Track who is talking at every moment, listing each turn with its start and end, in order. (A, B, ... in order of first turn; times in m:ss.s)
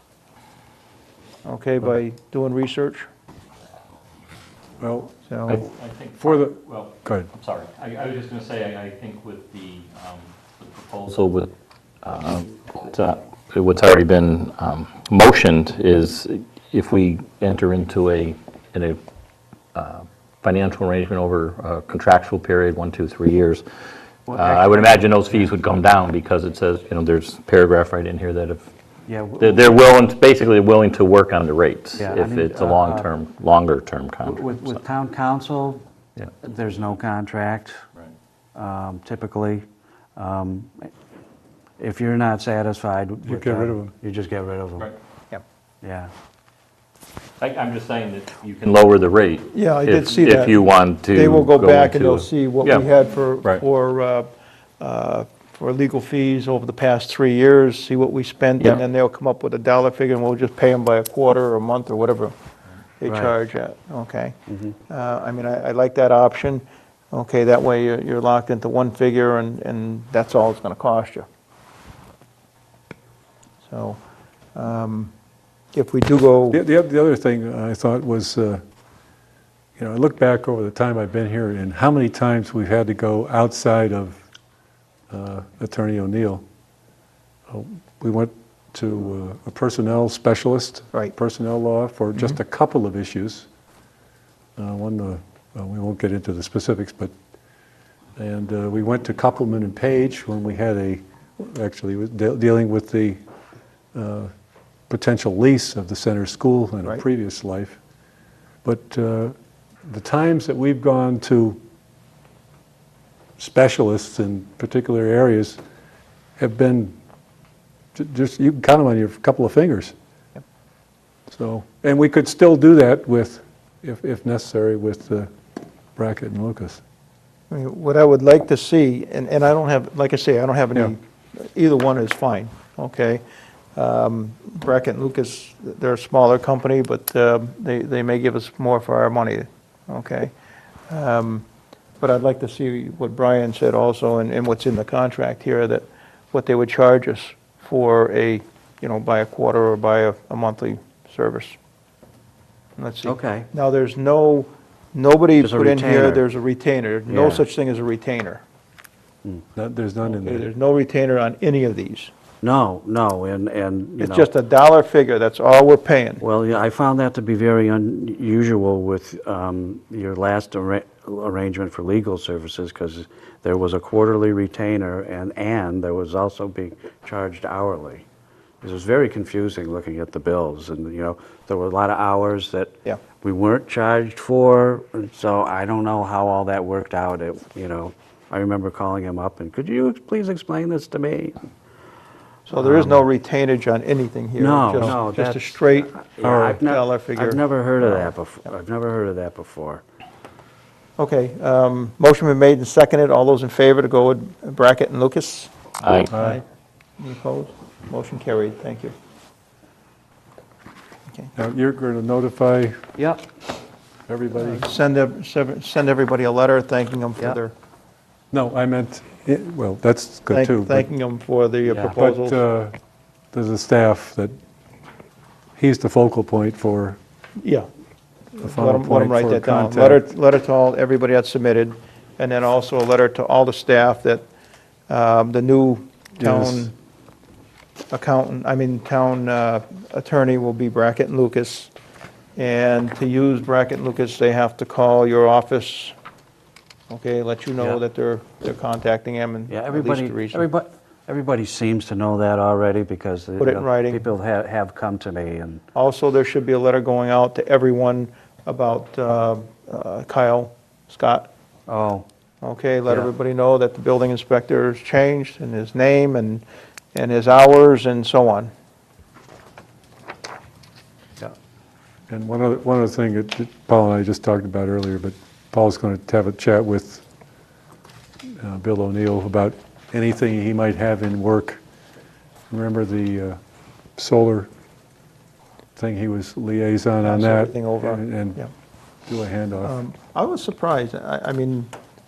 0:01.4-0:03.1 A
0:04.8-0:05.1 B
0:05.3-0:05.6 A
0:05.5-0:11.5 C
0:06.2-0:07.3 B
0:12.0-0:19.0 C
0:19.8-0:23.6 C
0:24.3-0:25.5 D
0:24.3-0:28.6 C
0:29.1-0:29.9 D
0:29.4-0:34.8 C
0:32.0-0:33.1 D
0:34.2-0:35.8 D
0:36.4-0:37.8 D
0:38.6-0:39.6 D
0:40.2-0:40.9 D
0:41.8-0:44.9 D
0:43.2-0:44.0 B
0:45.8-0:46.1 D
0:47.4-0:52.9 C
0:49.5-1:02.3 A
1:03.0-1:11.3 A
1:03.1-1:03.3 D
1:13.6-1:14.0 A
1:14.6-1:15.1 A
1:15.7-1:16.6 A
1:16.5-1:18.6 B
1:19.8-1:24.2 B
1:25.1-1:26.4 B
1:27.5-1:33.5 B
1:34.6-1:37.1 B
1:38.2-1:43.2 B
1:43.9-1:44.3 B
1:44.9-1:47.8 B
1:48.6-1:49.4 B
1:49.9-1:51.6 B
1:53.4-1:55.6 B
1:56.4-1:57.0 B
1:58.0-1:59.9 B
2:01.3-2:05.3 B
2:06.0-2:06.8 B
2:07.5-2:13.2 A
2:13.8-2:20.3 A
2:20.9-2:21.5 A
2:22.0-2:31.6 A
2:32.8-2:38.4 A
2:33.0-2:33.5 D
2:35.4-2:36.2 D
2:37.1-2:37.5 D
2:39.6-2:40.5 B
2:40.0-2:42.1 A
2:42.4-2:44.3 D
2:44.0-2:46.2 A
2:46.2-2:58.1 D
2:58.6-3:11.5 D
3:12.5-3:18.1 A
3:12.6-3:13.0 D
3:14.4-3:19.8 D
3:16.2-3:16.6 B
3:21.0-3:26.4 A
3:25.8-3:26.1 C
3:26.1-3:26.4 B
3:27.0-3:28.9 A
3:31.4-3:32.8 B
3:33.0-3:33.2 D
3:34.1-3:34.7 B
3:34.4-3:37.5 A
3:38.3-3:40.9 B
3:40.3-3:42.4 A
3:41.7-3:42.0 D
3:42.0-3:42.8 B
3:43.3-3:44.3 B
3:45.6-3:47.0 B
3:47.4-3:47.7 A
3:48.4-3:54.3 A
3:48.4-3:50.1 B
3:54.9-3:56.7 A
3:56.2-3:56.7 B
3:57.9-4:01.7 A
4:02.4-4:05.9 A
4:06.9-4:10.5 A
4:09.5-4:15.6 D
4:13.4-4:14.0 A
4:15.8-4:21.3 A
4:21.7-4:22.1 D
4:22.4-4:28.5 A
4:32.1-4:37.0 B
4:38.4-4:41.6 B
4:42.5-4:43.4 B
4:44.0-4:44.5 B
4:45.8-4:48.4 B
4:47.0-4:48.5 A
4:49.1-4:49.8 B
4:49.6-4:51.7 A